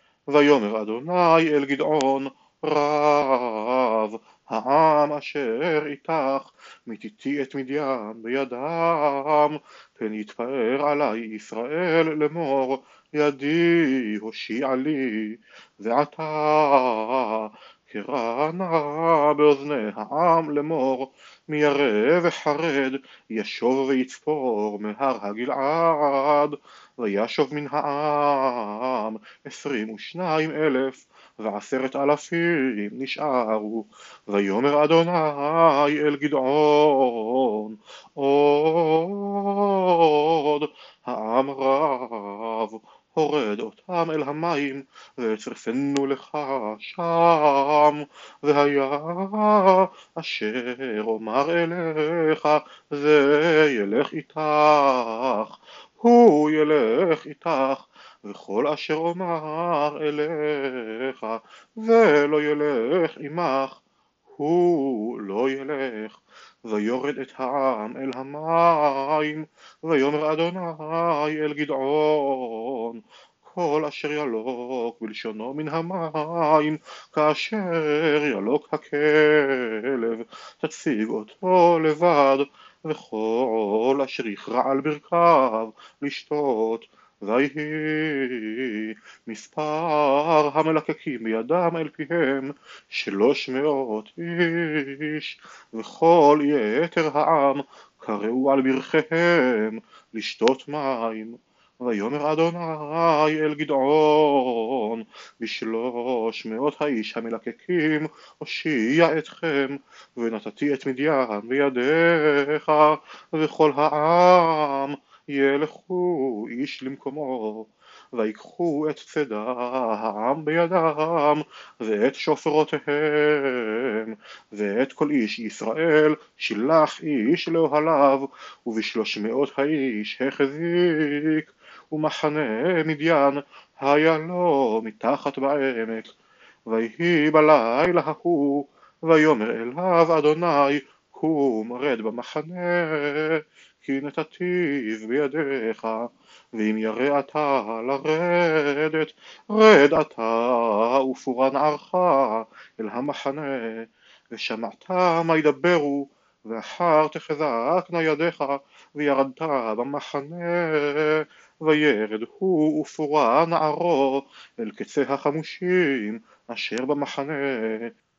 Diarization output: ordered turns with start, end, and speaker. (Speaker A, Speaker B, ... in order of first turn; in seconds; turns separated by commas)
Speaker A: 0.3-63.8, Speaker A: 64.4-136.1, Speaker A: 136.7-167.9